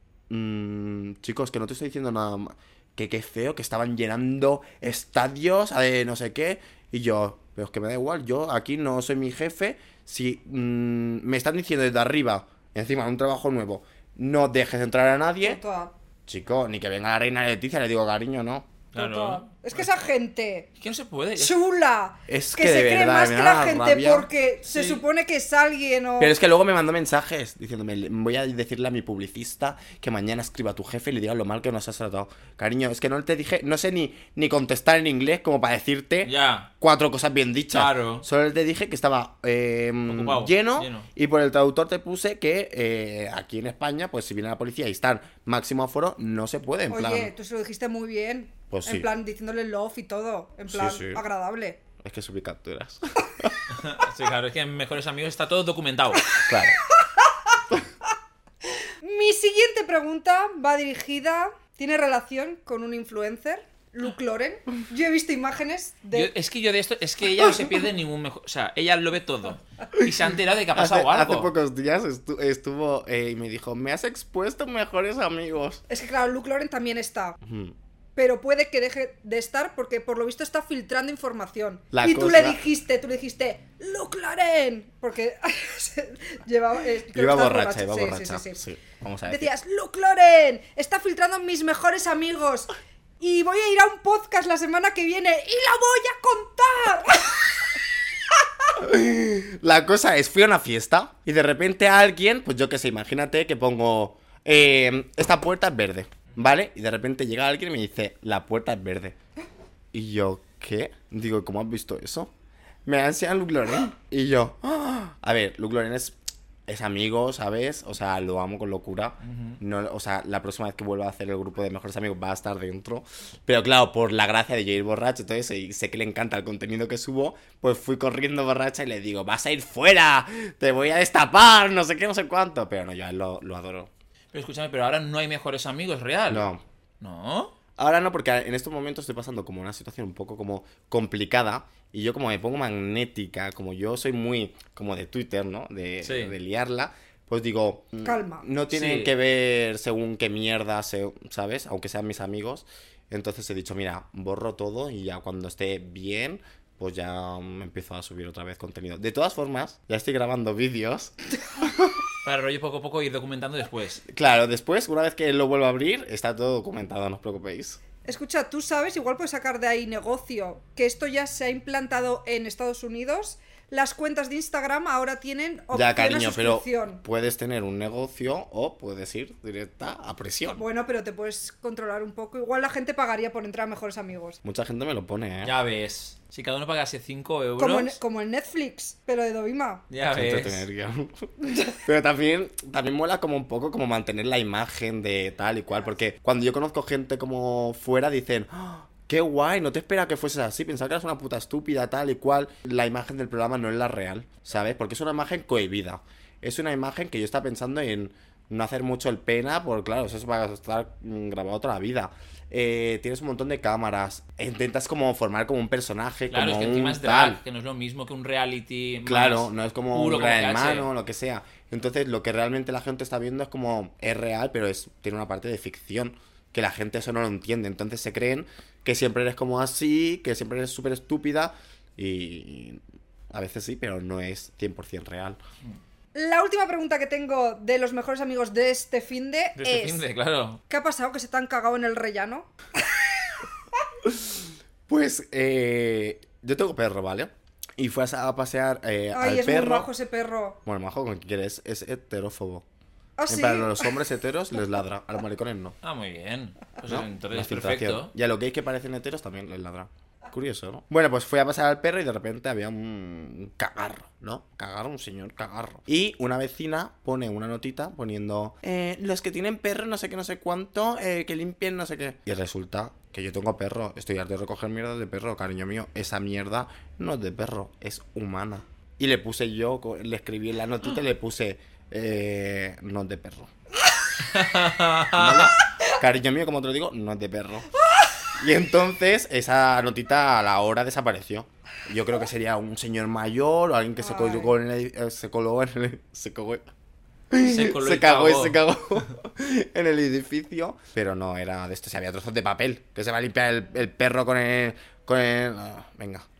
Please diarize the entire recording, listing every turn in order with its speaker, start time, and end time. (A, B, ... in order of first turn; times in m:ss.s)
0:00.3-0:15.6 A
0:15.4-0:15.9 B
0:16.3-0:18.7 A
0:18.9-0:19.9 C
0:18.9-0:20.7 B
0:20.8-0:21.5 C
0:21.4-0:26.3 B
0:22.3-0:24.3 A
0:24.7-0:25.0 C
0:26.2-0:47.3 A
0:36.2-0:36.7 C
0:37.7-0:38.2 C
0:40.1-0:41.1 C
0:46.9-0:51.8 B
0:48.7-0:49.1 A
0:50.7-0:51.2 A
0:52.0-0:53.6 A
0:53.7-0:56.4 C
0:56.4-0:56.8 A
0:57.0-0:57.3 B
0:59.0-1:06.3 B
1:06.1-1:11.5 C
1:10.7-1:15.8 A
1:15.9-1:17.4 B
1:17.4-1:17.7 A
1:18.2-1:28.6 B
1:21.9-1:22.6 A
1:27.1-1:29.5 A
1:29.2-1:37.4 B
1:38.7-1:49.2 A
1:49.9-1:52.3 A
1:52.8-1:56.2 A
1:56.7-2:13.9 A
1:59.2-1:59.6 C
2:14.3-2:16.5 C
2:16.3-2:16.6 A
2:17.0-2:17.5 C
2:17.8-2:42.0 A
2:26.0-2:26.3 C
2:28.0-2:28.4 B
2:28.7-2:29.1 C
2:42.2-2:44.0 C
2:44.1-2:47.8 A
2:48.0-2:57.0 B
2:55.7-3:00.6 A
3:00.6-3:04.4 B
3:04.4-3:05.5 A
3:05.4-3:08.0 C
3:07.6-3:09.8 B
3:09.9-3:10.6 C
3:10.1-3:37.4 A
3:36.3-3:40.9 C
3:39.0-3:55.4 A
3:56.1-4:00.0 B
3:59.6-4:00.6 C
4:00.7-4:03.4 B
4:04.0-4:09.9 A
4:09.1-4:10.6 B
4:10.6-4:12.6 A
4:13.2-4:13.9 B
4:13.3-4:15.8 A
4:15.8-4:18.1 C
4:16.9-4:43.5 A
4:44.2-4:45.5 C
4:45.1-4:47.7 A
4:48.3-4:56.6 A
4:54.0-4:54.5 B
4:57.3-5:06.2 A
4:57.4-4:58.6 C